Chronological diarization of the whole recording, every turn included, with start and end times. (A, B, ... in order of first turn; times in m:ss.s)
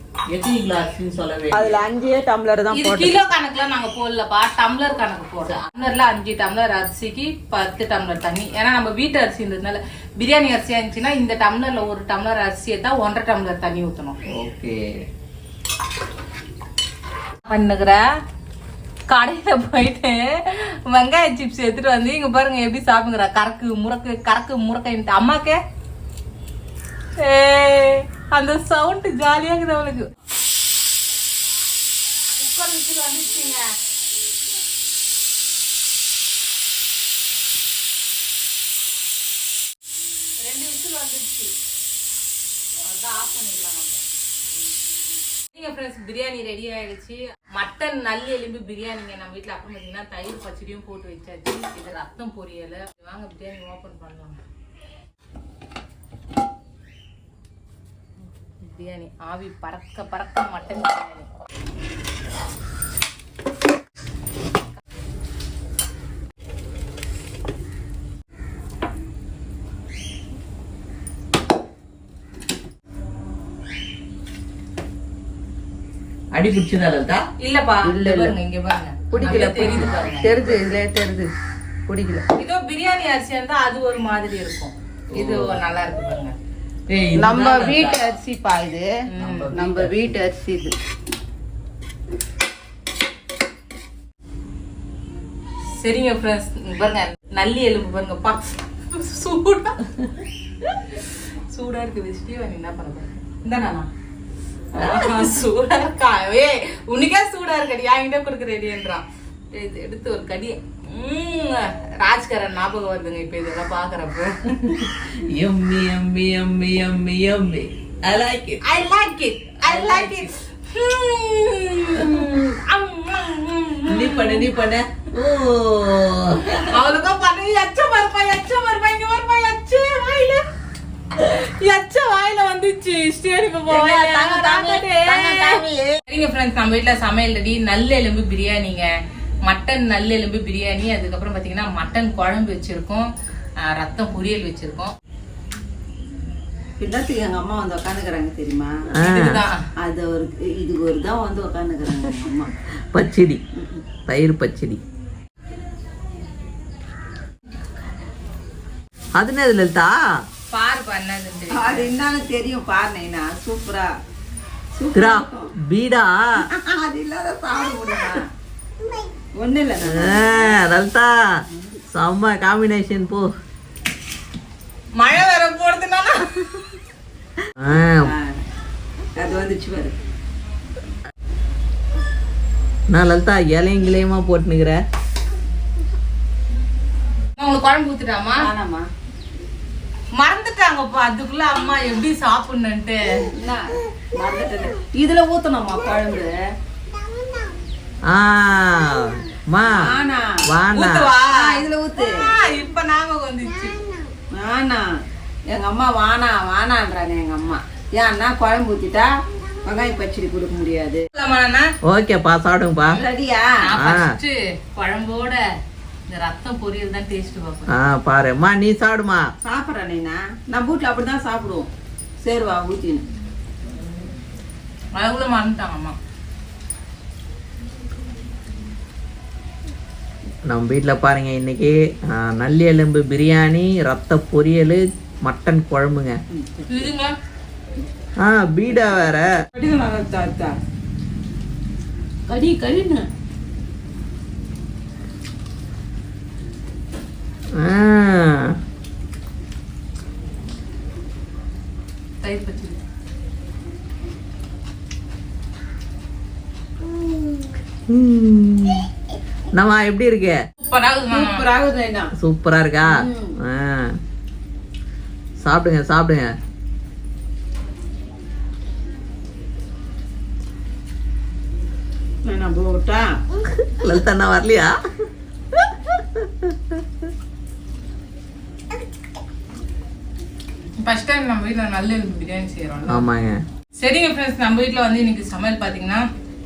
0:00.3-0:01.8 A
0:01.5-0:03.2 B
0:02.7-0:14.2 C
0:14.4-0:14.8 A
0:17.4-0:18.0 C
0:19.1-0:25.6 C
0:27.2-0:30.1 C
0:32.4-0:33.7 C
0:40.4-0:41.5 C
0:42.8-0:44.0 C
0:45.5-0:54.4 C
0:58.6-1:01.3 C
1:16.3-1:17.2 A
1:17.4-1:20.5 C
1:17.8-1:18.3 B
1:19.1-1:21.3 B
1:19.2-1:20.1 A
1:21.9-1:22.2 B
1:22.4-1:26.3 C
1:25.1-1:25.6 A
1:26.9-1:28.1 A
1:27.2-1:28.9 B
1:29.1-1:29.5 C
1:29.2-1:30.2 A
1:29.5-1:30.7 B
1:35.8-1:39.8 C
1:40.9-1:43.9 C
1:44.7-1:54.9 C
1:44.8-1:45.3 A
1:55.0-1:58.6 A
1:58.6-2:04.5 C
1:59.6-2:00.3 A
2:03.9-2:06.8 A
2:06.6-2:10.4 C
2:11.1-2:18.9 C
2:13.7-2:16.0 B
2:19.4-2:24.9 C
2:26.8-2:28.7 B
2:29.0-2:29.6 C
2:29.0-2:29.4 A
2:29.8-2:32.5 B
2:32.9-2:33.4 A
2:34.1-2:34.8 A
2:39.2-2:40.0 A
2:40.5-2:41.9 C
2:41.5-2:43.9 B
2:44.7-2:45.5 B
2:44.9-2:46.4 A
2:46.5-2:48.3 B
2:49.4-2:50.6 B
2:49.8-2:51.1 A
2:51.9-2:53.2 A
2:55.0-2:56.5 C
2:57.6-2:58.1 A
2:57.7-2:58.4 B
2:59.2-2:59.9 B
3:02.9-3:04.8 A
3:07.4-3:08.5 C
3:08.4-3:08.8 B
3:10.2-3:13.0 C
3:13.4-3:16.3 B
3:18.1-3:19.8 A
3:19.6-3:20.4 B
3:20.5-3:21.1 A
3:20.7-3:21.6 C
3:21.3-3:22.1 B
3:22.2-3:23.8 C
3:24.3-3:24.9 B
3:25.5-3:29.1 B
3:29.6-3:31.0 B
3:31.1-3:31.6 C
3:31.9-3:33.0 A
3:32.9-3:33.5 B
3:33.6-3:35.4 C
3:33.8-3:34.1 A
3:36.1-3:37.7 C
3:37.7-3:39.2 A
3:39.4-3:41.7 B
3:42.2-3:43.0 B
3:45.0-3:46.0 C
3:50.5-3:56.2 A
3:56.3-3:56.8 B
3:56.7-3:57.1 C
3:58.2-3:59.3 A
3:59.5-4:00.5 B
4:02.3-4:03.0 B
4:07.6-4:08.5 A
4:12.2-4:12.8 C
4:17.9-4:18.8 A
4:19.5-4:20.4 A
4:20.6-4:21.4 C
4:21.1-4:22.1 B
4:22.2-4:23.9 A
4:22.8-4:23.3 B
4:25.4-4:26.3 A
4:32.2-4:33.1 B
4:33.6-4:34.7 A
4:35.5-4:36.8 A
4:40.8-4:43.0 C
4:42.9-4:43.4 A
4:43.8-4:46.0 C